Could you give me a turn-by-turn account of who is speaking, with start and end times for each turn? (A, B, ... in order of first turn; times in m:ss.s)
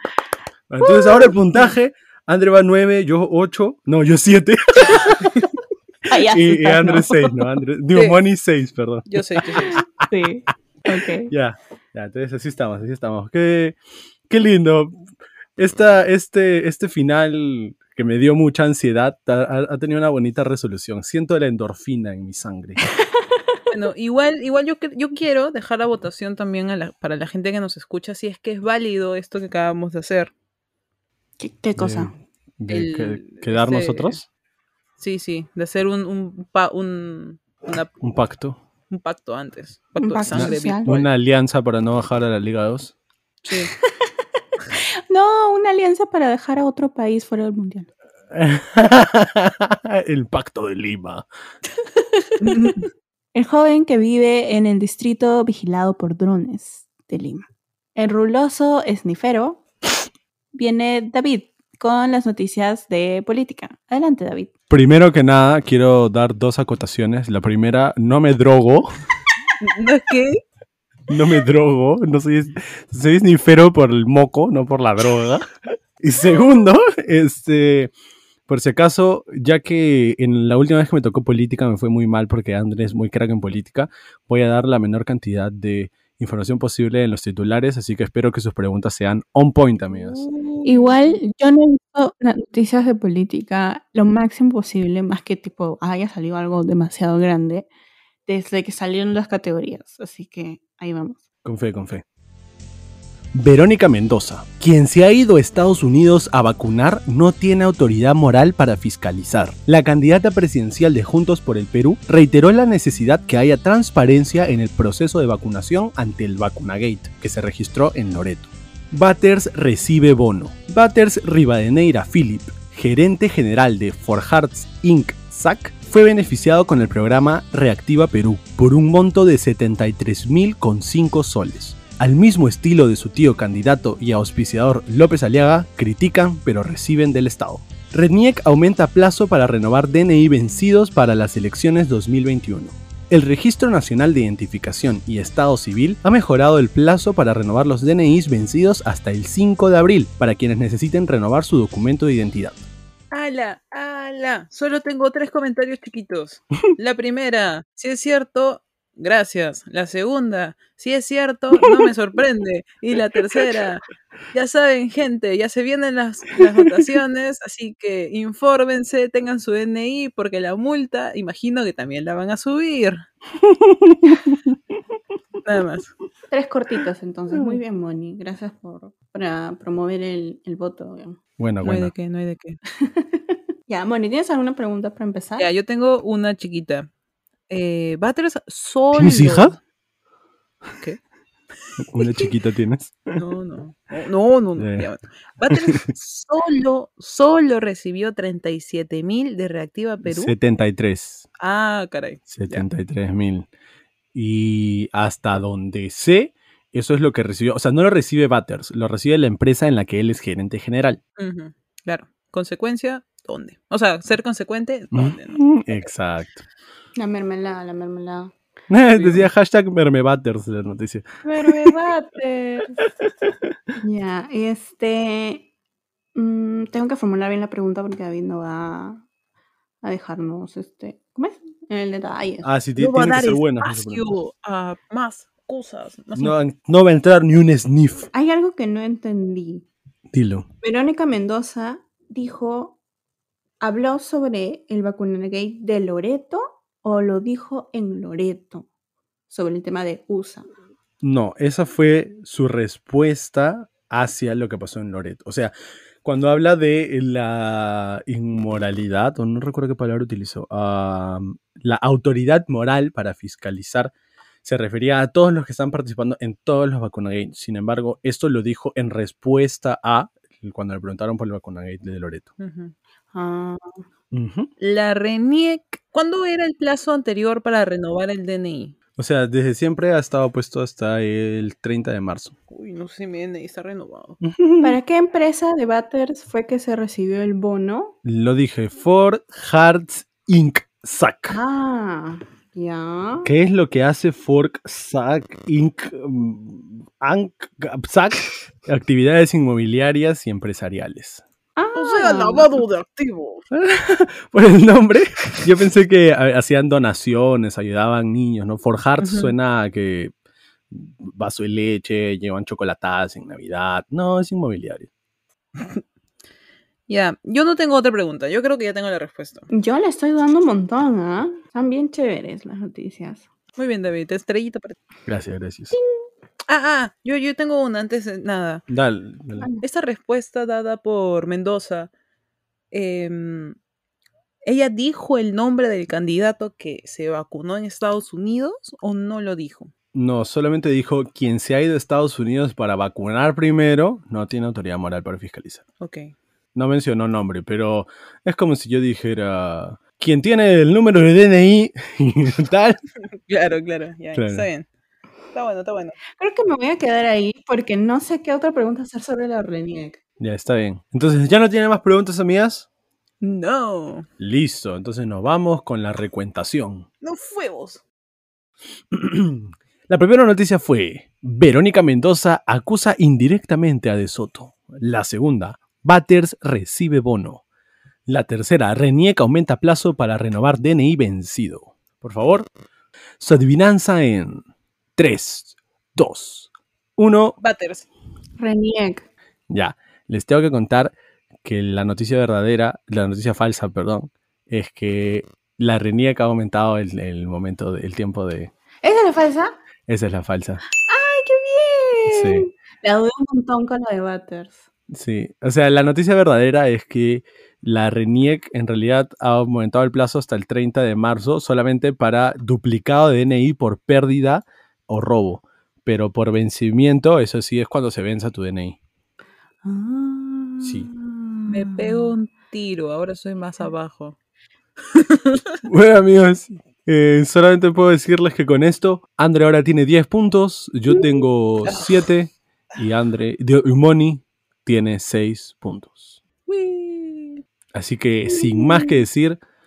0:00.7-0:05.3 A
0:00.8-0:01.7 B
0:05.0-0:05.3 B
0:06.1-0:07.5 B
0:06.1-0:09.8 A
0:09.1-0:09.8 C
0:09.6-0:11.3 B
0:11.2-0:13.8 A
0:14.3-0:15.0 A
0:15.6-0:22.9 A
0:23.0-0:23.6 B
0:23.7-0:30.3 C
0:31.4-0:32.1 B
0:31.8-0:34.2 A
0:32.7-0:34.2 C
0:35.0-0:37.9 C
0:38.0-0:38.6 A
0:38.9-0:41.1 C
0:40.0-0:40.9 B
0:40.3-0:42.9 A
0:43.5-0:44.1 B
0:44.7-0:47.9 B
0:48.3-0:51.2 A
0:51.9-0:52.8 B
0:52.4-0:52.9 C
0:53.3-0:59.6 B
1:00.5-1:04.5 B
1:04.7-1:08.9 A
1:09.6-1:10.4 C
1:11.1-1:15.4 A
1:16.0-1:17.9 A
1:18.5-1:30.3 A
1:29.9-1:31.2 C
1:30.6-1:37.7 B
1:38.3-1:41.2 B
1:41.4-1:42.0 A
1:43.3-2:32.6 A
2:33.1-2:53.0 C
2:53.4-2:54.3 A
2:55.4-2:55.9 C
2:56.3-3:01.2 B
3:01.4-3:01.9 A
3:01.6-3:02.6 C
3:02.8-3:05.5 B
3:05.4-3:06.9 C
3:07.5-3:09.6 C
3:08.9-3:09.6 A
3:11.8-3:13.2 A
3:12.0-3:12.3 C
3:13.2-3:20.3 C
3:14.6-3:14.9 A
3:15.5-3:15.8 A
3:20.0-3:21.2 A
3:21.4-3:22.6 C
3:22.3-3:23.5 A
3:24.1-3:31.0 A
3:31.2-3:35.5 C
3:34.9-3:36.5 A
3:37.0-3:38.3 B
3:38.7-3:41.7 A
3:39.0-3:39.2 C
3:41.2-3:42.9 B
3:43.0-3:43.5 A
3:43.8-3:45.5 B
3:46.1-3:49.0 B
3:49.8-3:52.5 B
3:52.4-3:54.0 A
3:52.8-3:56.3 C
3:56.2-3:58.1 A
3:58.1-3:59.7 B
4:00.1-4:00.5 A
4:00.6-4:02.8 B
4:03.6-4:08.7 B
4:09.3-4:10.5 B
4:11.0-4:15.5 A
4:16.0-4:23.9 A
4:24.4-4:32.3 A
4:32.4-4:32.7 C
4:33.1-4:33.8 B
4:34.1-4:34.5 A
4:34.6-4:38.7 C
4:39.0-4:42.3 A
4:42.5-4:44.2 C
4:44.2-4:44.8 A
4:44.6-4:47.9 B
4:48.0-4:51.4 A
4:51.3-4:53.3 B
4:53.2-5:01.2 A
5:01.6-5:02.6 B
5:01.7-5:03.4 C
5:03.5-5:10.1 A
5:09.0-5:09.3 C
5:10.7-5:14.9 A
5:16.9-5:19.5 C
5:19.5-5:23.3 B
5:23.6-5:24.8 C
5:25.0-5:25.8 A
5:26.5-5:28.6 C
5:28.7-5:29.5 A
5:29.6-5:31.9 C
5:32.7-5:33.6 C
5:34.4-5:39.7 C
5:39.9-5:45.6 A
5:45.8-5:46.1 C
5:46.5-5:52.8 A
5:53.1-5:54.6 C
5:54.1-5:54.5 A
5:55.3-5:56.0 C
5:56.2-6:00.0 B
6:00.2-6:02.7 A
6:03.2-6:04.1 C
6:04.2-6:06.8 A
6:07.0-6:07.8 C
6:08.9-6:17.4 A
6:18.1-6:22.5 A
6:23.2-6:24.4 A
6:25.0-6:27.4 A
6:27.4-6:27.8 C
6:28.4-6:29.0 B
6:29.5-6:38.5 A
6:38.8-6:39.5 B
6:39.9-6:40.6 A
6:40.8-6:44.6 B
6:42.1-6:42.5 A
6:44.9-6:58.8 A
6:59.6-7:02.1 B
7:00.6-7:00.9 A
7:01.5-7:04.2 C
7:04.9-7:05.5 C
7:05.6-7:16.2 A
7:16.5-7:17.4 C
7:17.7-7:19.4 A